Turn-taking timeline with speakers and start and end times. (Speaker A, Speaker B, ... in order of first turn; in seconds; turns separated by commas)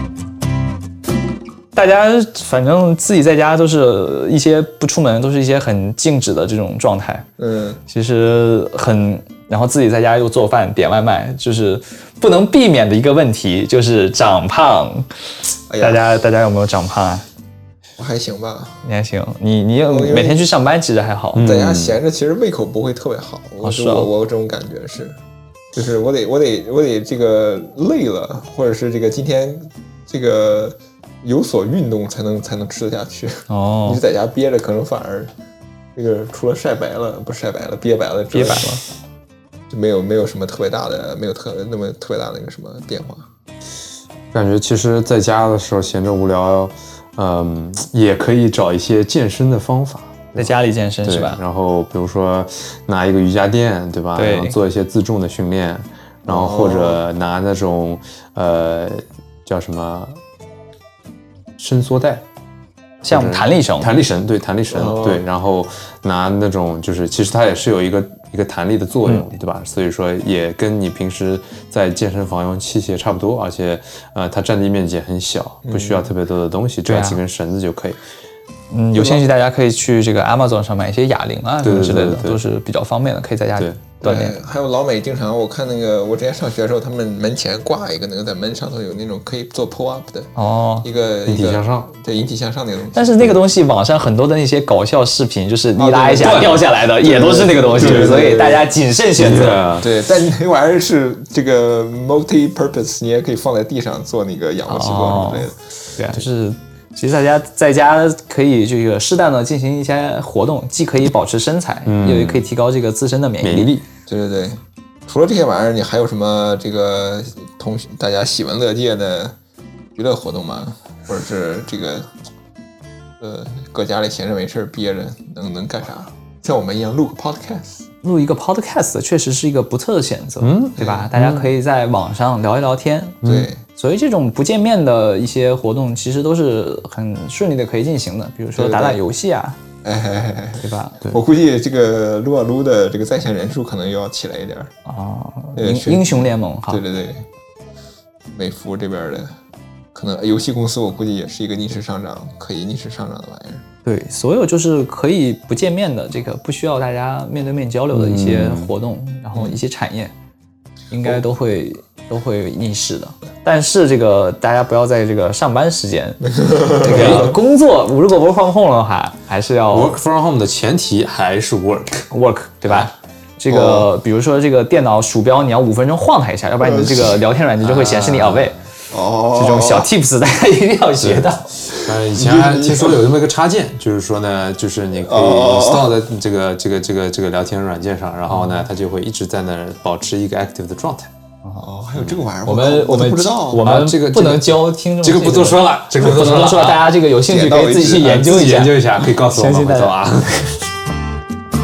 Speaker A: 1.7-7.3, Speaker B: 7.4-7.8, Speaker A: 7.9-15.1, Speaker B: 15.7-16.0, Speaker A: 15.8-17.2, Speaker B: 18.0-18.8, Speaker A: 18.8-21.5, Speaker B: 19.8-20.4, Speaker C: 21.3-22.0, Speaker B: 21.4-25.2, Speaker A: 23.6-24.1, Speaker B: 25.7-35.3, Speaker A: 33.5-34.0, Speaker B: 36.0-38.8, Speaker A: 38.3-38.8, Speaker B: 39.7-43.3, Speaker C: 44.3-50.5, Speaker A: 50.4-51.4, Speaker C: 51.0-60.2, Speaker A: 54.2-54.6, Speaker B: 56.3-57.0, Speaker C: 61.6-62.2, Speaker C: 63.0-78.0, Speaker A: 63.0-63.9, Speaker B: 64.8-65.2, Speaker B: 75.7-76.1, Speaker A: 76.9-77.2, Speaker A: 78.7-84.4, Speaker B: 79.0-79.2, Speaker C: 81.6-82.4, Speaker C: 83.6-83.8, Speaker B: 84.0-93.4, Speaker A: 90.4-90.9, Speaker C: 91.2-91.9, Speaker A: 92.9-99.8, Speaker B: 95.8-98.7, Speaker C: 96.2-96.7, Speaker C: 97.8-98.2, Speaker C: 99.2-99.9, Speaker B: 99.8-105.6, Speaker A: 104.7-113.7, Speaker C: 111.9-112.5, Speaker C: 113.4-113.8, Speaker B: 114.1-119.3, Speaker B: 120.0-122.1, Speaker B: 123.2-127.8, Speaker A: 128.0-133.2, Speaker C: 130.4-131.5, Speaker B: 130.8-131.1, Speaker C: 133.2-133.5, Speaker B: 133.2-133.6, Speaker A: 133.8-139.6, Speaker B: 138.6-139.0, Speaker B: 139.8-144.7, Speaker A: 140.6-141.0, Speaker A: 144.9-146.8, Speaker B: 145.6-147.3, Speaker B: 148.3-149.3, Speaker B: 149.9-153.6, Speaker A: 153.9-160.1, Speaker C: 157.9-158.8, Speaker B: 159.3-159.6, Speaker A: 160.9-170.0, Speaker B: 166.3-167.4, Speaker C: 169.7-172.1, Speaker A: 172.1-178.6, Speaker C: 172.7-172.9, Speaker B: 173.5-173.9, Speaker B: 176.6-177.2, Speaker C: 177.6-178.7, Speaker B: 178.9-179.9, Speaker A: 179.3-181.6, Speaker C: 181.0-191.1, Speaker B: 181.7-183.0, Speaker B: 185.0-186.0, Speaker A: 188.3-188.7, Speaker B: 191.6-193.6, Speaker C: 191.9-192.2, Speaker A: 192.4-200.4, Speaker C: 193.6-196.9, Speaker B: 197.3-198.1, Speaker C: 198.0-200.7